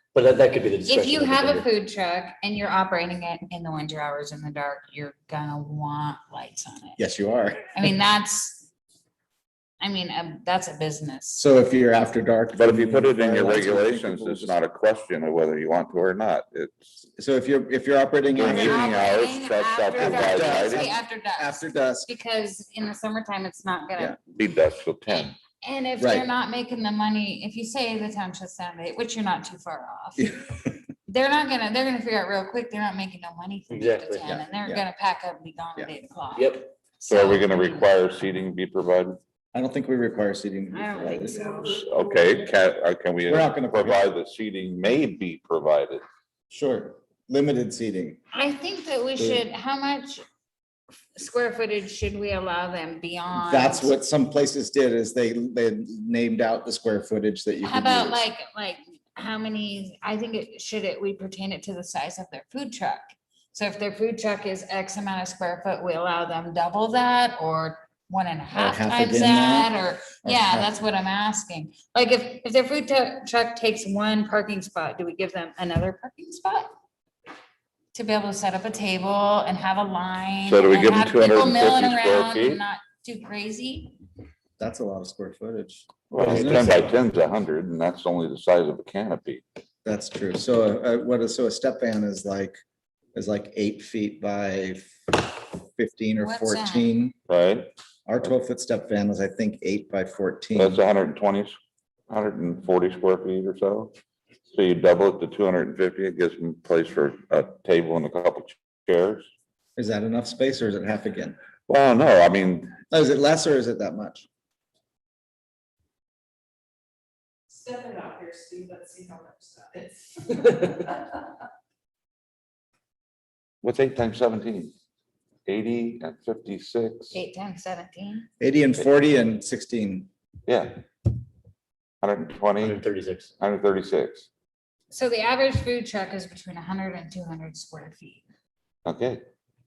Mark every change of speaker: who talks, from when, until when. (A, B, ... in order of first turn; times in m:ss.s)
0:00.1-0:01.7 A
0:00.8-0:07.0 B
0:07.0-0:07.7 C
0:07.7-0:08.7 B
0:09.8-0:11.4 B
0:11.4-0:14.6 C
0:12.6-0:16.9 D
0:17.2-0:19.0 C
0:18.3-0:20.9 D
0:18.4-0:24.2 B
0:19.9-0:22.1 C
0:24.3-0:25.4 D
0:25.1-0:30.4 B
0:26.0-0:26.3 C
0:30.2-0:30.8 C
0:31.0-0:37.9 B
0:33.7-0:34.2 A
0:34.2-0:34.8 C
0:36.4-0:36.7 A
0:37.1-0:39.2 D
0:39.5-0:41.7 C
0:40.7-0:41.8 B
0:41.4-0:42.2 E
0:41.6-0:46.0 D
0:43.3-0:44.0 C
0:46.5-0:48.2 C
0:48.3-0:50.2 B
0:49.2-0:49.4 C
0:51.2-0:53.9 B
0:53.3-0:58.2 C
0:57.6-1:16.7 B
1:08.5-1:10.8 C
1:17.9-1:24.0 B
1:20.5-1:22.6 D
1:24.6-1:26.9 C
1:26.1-1:29.4 D
1:26.4-1:26.7 A
1:29.8-1:32.6 C
1:33.1-1:37.1 C
1:36.2-1:36.9 B
1:37.3-1:37.7 D
1:38.0-1:40.8 C
1:40.6-1:41.6 D
1:42.1-1:43.9 D
1:44.5-1:49.3 D
1:49.8-1:51.4 C
1:51.7-1:52.8 D
1:52.9-1:54.2 C
1:57.5-2:01.2 E
2:03.6-2:04.7 D
2:05.4-2:07.2 D
2:07.1-2:08.2 B
2:08.4-2:10.1 C
2:10.5-2:10.8 D
2:12.0-2:12.8 D
2:12.6-2:13.3 A
2:13.4-2:14.3 D
2:14.9-2:18.2 B
2:18.8-2:19.2 D